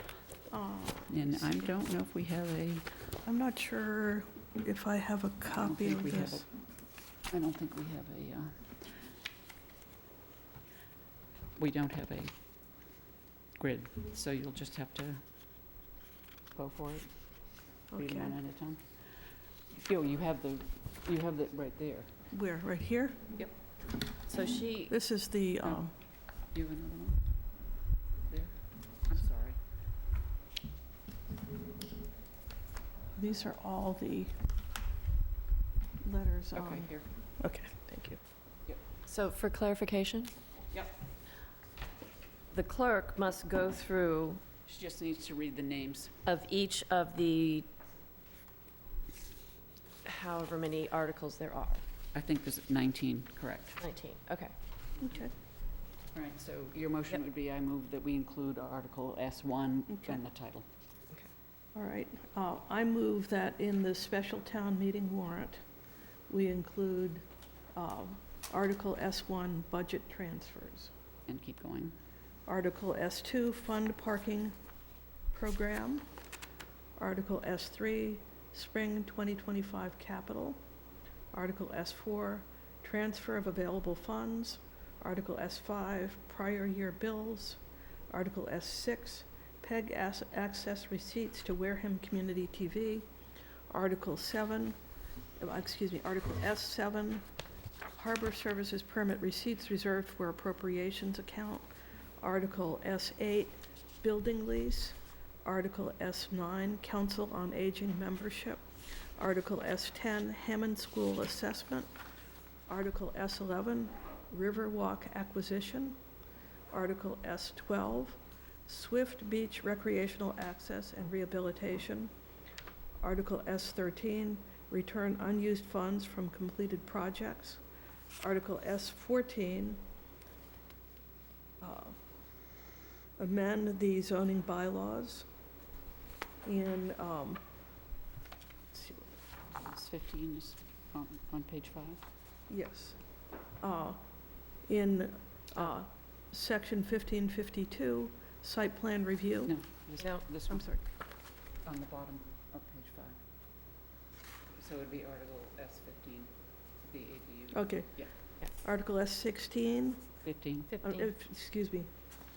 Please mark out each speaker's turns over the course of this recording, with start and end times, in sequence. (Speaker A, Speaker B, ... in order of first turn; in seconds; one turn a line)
Speaker A: 0.5-1.3
Speaker B: 1.1-2.9
Speaker A: 3.3-6.5
Speaker B: 5.5-6.5
Speaker B: 7.3-8.6
Speaker B: 11.6-12.3
Speaker B: 13.6-15.2
Speaker B: 16.6-17.1
Speaker A: 17.9-18.4
Speaker B: 17.9-18.8
Speaker B: 19.9-22.1
Speaker A: 22.3-23.2
Speaker C: 24.3-24.9
Speaker A: 24.9-25.9
Speaker B: 26.5-27.2
Speaker B: 28.3-28.6
Speaker B: 29.1-29.6
Speaker A: 33.2-34.3
Speaker A: 36.0-38.2
Speaker B: 36.5-37.1
Speaker C: 39.1-40.3
Speaker C: 42.5-44.4
Speaker B: 44.6-46.1
Speaker C: 46.3-47.7
Speaker C: 50.0-51.8
Speaker B: 52.1-53.8
Speaker C: 53.8-54.5
Speaker A: 55.0-55.3
Speaker B: 56.1-60.7
Speaker A: 61.8-65.6
Speaker A: 66.3-67.2
Speaker A: 67.8-70.9
Speaker B: 71.3-72.0
Speaker A: 72.5-74.5
Speaker A: 75.3-76.0
Speaker A: 77.0-80.6
Speaker A: 81.3-93.1
Speaker A: 93.7-94.8
Speaker A: 95.4-97.2
Speaker A: 98.0-101.7
Speaker A: 102.2-108.6
Speaker A: 109.2-111.9
Speaker A: 112.7-116.0
Speaker A: 116.7-122.1
Speaker A: 123.0-127.6
Speaker A: 128.2-129.8
Speaker A: 131.6-132.0
Speaker A: 133.2-135.3
Speaker A: 136.4-137.4
Speaker A: 138.7-139.1
Speaker B: 139.6-142.0
Speaker A: 142.5-143.0
Speaker A: 143.6-144.0
Speaker A: 144.7-149.5
Speaker B: 149.5-150.7
Speaker C: 150.0-150.2
Speaker A: 150.5-150.8
Speaker B: 151.7-153.2
Speaker B: 154.6-156.3
Speaker B: 156.9-158.1
Speaker A: 157.5-157.9
Speaker A: 158.6-160.0
Speaker B: 160.2-160.8
Speaker C: 160.7-161.1
Speaker A: 160.8-161.9